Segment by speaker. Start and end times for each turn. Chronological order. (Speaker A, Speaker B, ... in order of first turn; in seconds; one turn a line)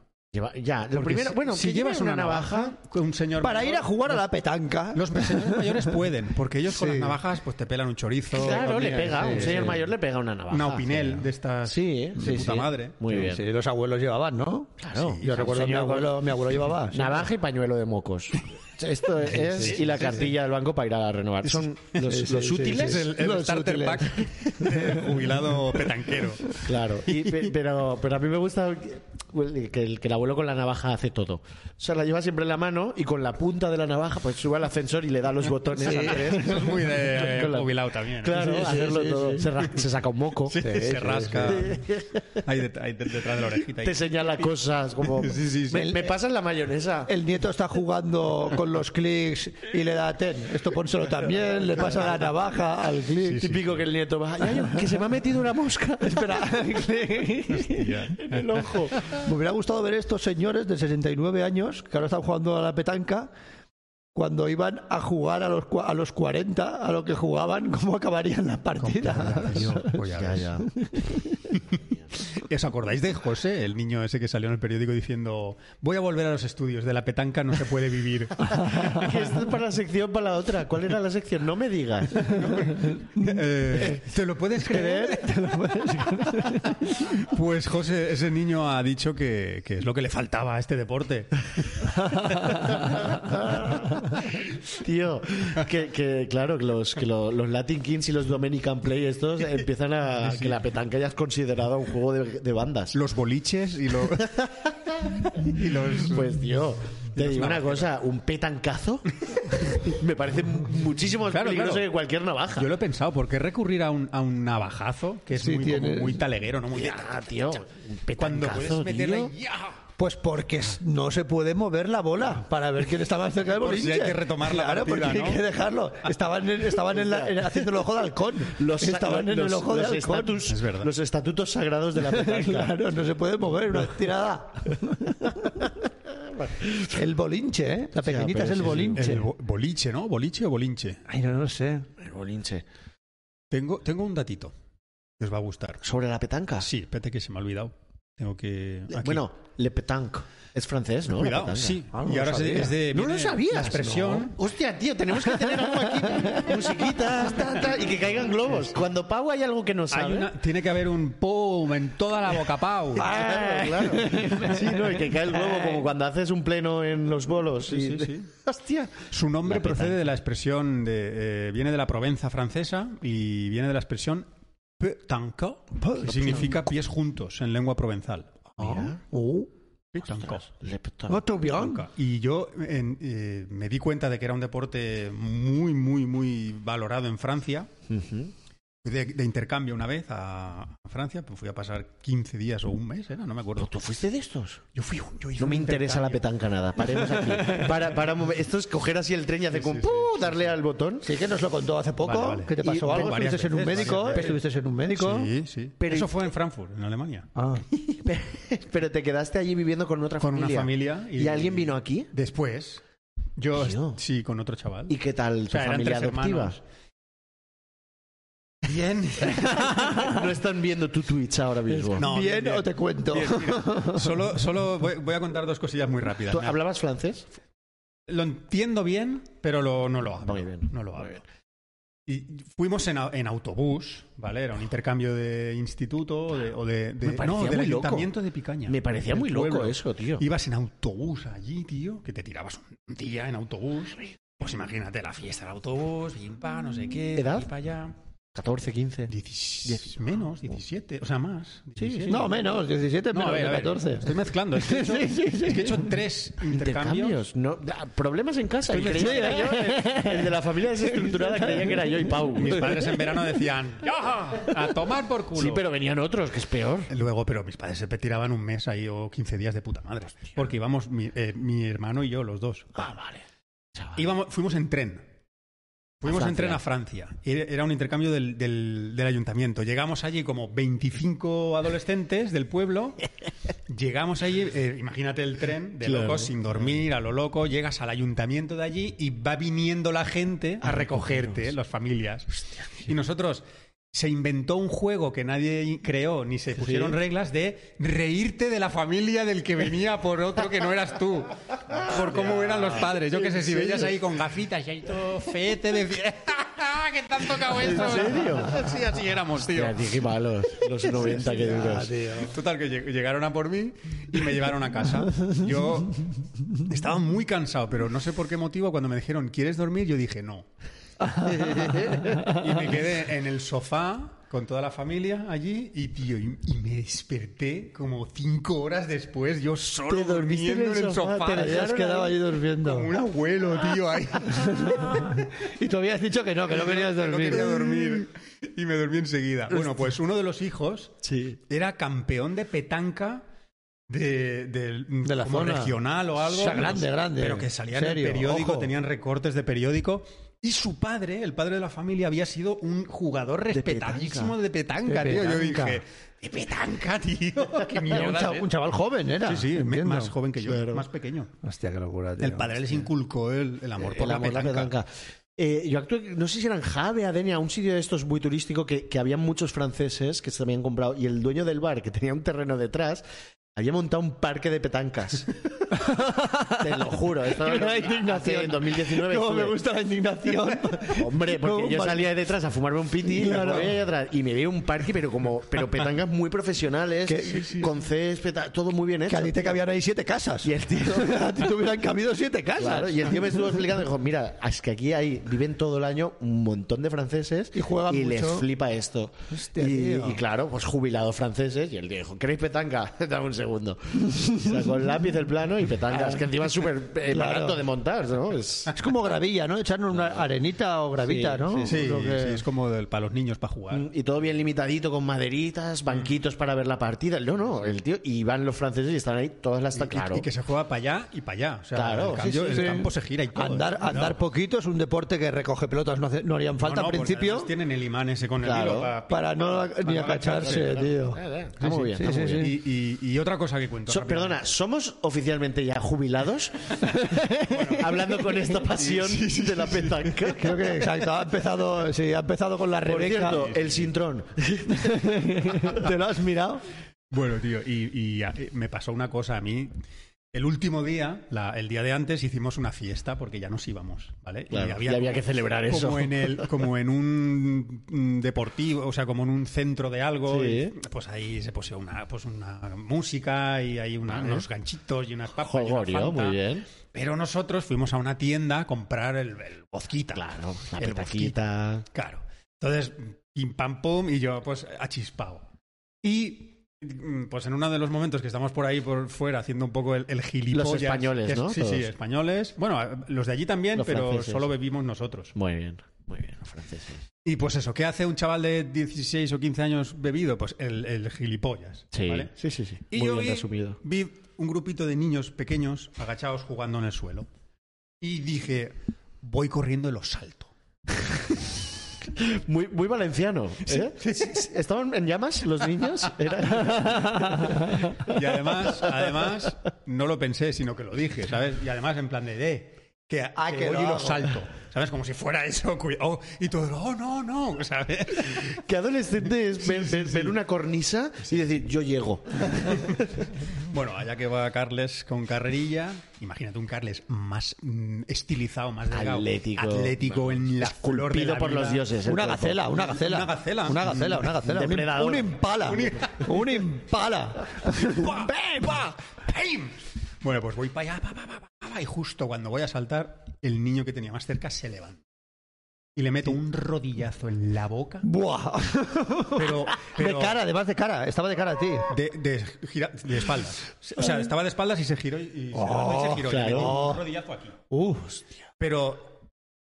Speaker A: 0.3-2.8
Speaker B: 1.0-4.2
Speaker C: 3.4-5.9
Speaker B: 4.9-9.9
Speaker C: 6.7-7.2
Speaker A: 8.3-13.4
Speaker C: 8.4-9.8
Speaker B: 10.5-13.3
Speaker C: 13.1-17.2
Speaker A: 14.8-16.4
Speaker B: 14.9-15.6
Speaker A: 16.9-23.1
Speaker B: 19.3-20.3
Speaker C: 19.4-19.8
Speaker B: 21.5-27.5
Speaker C: 22.0-25.2
Speaker A: 26.6-40.7
Speaker C: 35.8-36.8
Speaker B: 35.9-38.8
Speaker C: 38.3-39.5
Speaker B: 40.5-44.5
Speaker C: 40.6-41.7
Speaker A: 41.4-42.4
Speaker A: 43.8-47.1
Speaker B: 45.1-46.0
Speaker C: 45.7-46.1
Speaker C: 47.1-53.5
Speaker B: 53.2-53.8
Speaker A: 53.4-56.5
Speaker C: 56.0-58.1
Speaker B: 57.5-59.2
Speaker A: 58.2-59.0
Speaker C: 59.1-63.3
Speaker C: 64.1-69.9
Speaker B: 68.8-70.6
Speaker A: 69.5-70.7
Speaker C: 70.6-71.4
Speaker B: 72.3-79.2
Speaker A: 78.7-82.5
Speaker B: 82.2-85.5
Speaker C: 83.0-84.0
Speaker C: 84.6-86.9
Speaker B: 86.9-92.7
Speaker C: 92.2-92.7
Speaker A: 92.8-103.0
Speaker B: 100.2-100.6
Speaker B: 102.9-104.5
Speaker A: 104.2-105.4
Speaker B: 105.0-106.4
Speaker A: 106.0-112.7
Speaker B: 107.1-107.9
Speaker B: 111.3-111.9
Speaker B: 112.6-117.2
Speaker C: 115.4-116.2
Speaker A: 116.7-119.3
Speaker B: 118.2-119.8
Speaker C: 120.0-130.4
Speaker B: 123.5-125.4
Speaker A: 126.8-127.6
Speaker A: 128.4-132.8
Speaker B: 130.5-130.9
Speaker C: 132.0-135.7
Speaker A: 136.1-137.1
Speaker C: 136.9-139.3
Speaker A: 138.0-139.2
Speaker B: 138.9-141.0
Speaker C: 141.1-141.9
Speaker A: 142.0-142.7
Speaker B: 143.5-144.5
Speaker B: 145.2-145.8
Speaker A: 145.8-146.7
Speaker B: 146.6-149.2
Speaker A: 148.9-151.8
Speaker B: 151.1-154.4
Speaker C: 151.9-152.8
Speaker A: 152.9-160.3
Speaker C: 155.3-157.4
Speaker B: 159.9-163.1
Speaker A: 162.9-170.0
Speaker C: 163.0-165.8
Speaker B: 167.7-168.3
Speaker B: 169.1-174.3
Speaker B: 174.8-178.5
Speaker C: 175.8-176.5
Speaker A: 178.6-179.0
Speaker C: 178.6-179.5
Speaker B: 179.9-180.5
Speaker A: 180.0-181.2
Speaker C: 181.1-181.8
Speaker B: 181.5-187.7
Speaker A: 187.9-188.3
Speaker B: 188.8-193.7
Speaker A: 193.6-194.6
Speaker B: 194.8-196.2
Speaker A: 195.4-201.1
Speaker B: 197.5-197.8
Speaker B: 199.5-200.4
Speaker C: 201.0-205.3
Speaker B: 202.0-207.3
Speaker A: 202.6-204.4
Speaker A: 205.8-206.1
Speaker C: 207.4-207.7
Speaker A: 207.8-212.1
Speaker B: 210.2-212.8
Speaker B: 213.4-215.0
Speaker A: 213.6-214.0
Speaker A: 214.9-216.6
Speaker B: 215.5-216.6
Speaker B: 218.6-220.1
Speaker A: 219.8-222.1
Speaker C: 221.8-224.1
Speaker B: 222.0-226.6
Speaker A: 226.3-227.3
Speaker B: 228.1-231.2
Speaker A: 230.2-231.2
Speaker B: 232.1-247.9
Speaker A: 237.0-238.1
Speaker A: 238.7-240.2
Speaker A: 247.1-247.5
Speaker A: 248.3-249.1
Speaker B: 249.1-252.5
Speaker A: 251.8-252.2
Speaker C: 252.1-255.9
Speaker B: 253.1-257.3
Speaker A: 256.5-262.8
Speaker B: 258.7-259.6
Speaker C: 258.9-260.3
Speaker C: 260.9-263.0
Speaker B: 262.2-265.6
Speaker A: 265.4-266.9
Speaker B: 266.9-272.9
Speaker A: 272.8-273.2
Speaker B: 274.0-275.0
Speaker B: 276.0-283.1
Speaker A: 276.0-276.6
Speaker B: 283.7-310.0
Speaker A: 285.8-286.3
Speaker A: 290.6-291.2
Speaker A: 296.6-297.0
Speaker A: 301.7-303.9
Speaker A: 307.6-308.7
Speaker A: 309.5-311.9
Speaker C: 311.2-312.3
Speaker B: 312.2-320.5
Speaker C: 321.1-322.4
Speaker B: 321.4-331.7
Speaker A: 329.9-332.2
Speaker C: 331.3-332.9
Speaker B: 332.6-335.2
Speaker C: 334.2-338.0
Speaker B: 336.5-340.9
Speaker A: 341.0-341.4
Speaker B: 341.5-343.2
Speaker B: 343.9-358.5
Speaker C: 345.0-348.7
Speaker A: 353.5-354.4
Speaker C: 354.9-355.8
Speaker C: 357.9-360.1
Speaker B: 359.2-361.3
Speaker A: 360.4-360.9
Speaker C: 361.4-362.5
Speaker B: 362.2-364.7
Speaker A: 363.8-373.0
Speaker A: 373.6-375.3
Speaker C: 375.7-376.8
Speaker A: 376.6-379.6
Speaker C: 377.4-382.1
Speaker A: 380.9-389.6
Speaker C: 383.0-383.8
Speaker C: 387.1-387.7
Speaker C: 389.1-393.4
Speaker A: 390.4-391.3
Speaker A: 392.6-408.7
Speaker C: 397.5-398.5
Speaker C: 399.3-400.2
Speaker C: 404.1-404.6
Speaker C: 406.0-406.3
Speaker C: 407.1-407.6
Speaker C: 408.7-412.4
Speaker A: 409.9-410.2
Speaker A: 411.0-412.1
Speaker B: 411.6-413.9
Speaker A: 413.7-420.3
Speaker B: 419.8-424.2
Speaker A: 421.7-422.8
Speaker C: 422.5-427.5
Speaker B: 426.6-430.9
Speaker A: 428.4-428.9
Speaker C: 429.1-432.6
Speaker A: 430.2-432.5
Speaker B: 431.6-434.5
Speaker A: 433.9-436.9
Speaker C: 436.9-438.4
Speaker B: 437.5-437.9
Speaker A: 437.7-440.9
Speaker B: 438.8-440.4
Speaker C: 440.4-443.4
Speaker A: 442.9-445.8
Speaker B: 443.2-443.9
Speaker C: 444.7-446.6
Speaker B: 447.1-449.7
Speaker B: 450.3-466.4
Speaker A: 454.5-456.5
Speaker A: 460.3-460.7
Speaker A: 464.1-464.5
Speaker A: 465.4-466.7
Speaker B: 466.9-471.4
Speaker A: 470.1-471.9
Speaker B: 471.9-475.5
Speaker B: 476.0-485.4
Speaker A: 480.5-481.9
Speaker A: 483.8-484.5
Speaker A: 485.4-487.1
Speaker B: 487.2-492.3
Speaker A: 491.9-493.8
Speaker B: 492.9-497.3
Speaker B: 498.0-500.5
Speaker A: 502.1-509.5
Speaker B: 503.7-504.5
Speaker B: 508.0-518.6
Speaker C: 513.4-514.3
Speaker A: 518.4-523.1
Speaker B: 519.6-520.4
Speaker B: 523.6-531.9
Speaker A: 528.9-532.8
Speaker C: 532.0-538.2
Speaker B: 532.8-534.3
Speaker A: 534.4-536.0
Speaker B: 535.6-536.6
Speaker B: 537.6-545.0
Speaker B: 546.0-548.1
Speaker C: 548.0-551.9
Speaker B: 549.3-550.4
Speaker B: 551.9-557.6
Speaker C: 555.5-557.0
Speaker A: 556.2-556.9
Speaker C: 557.7-558.2
Speaker B: 558.6-559.2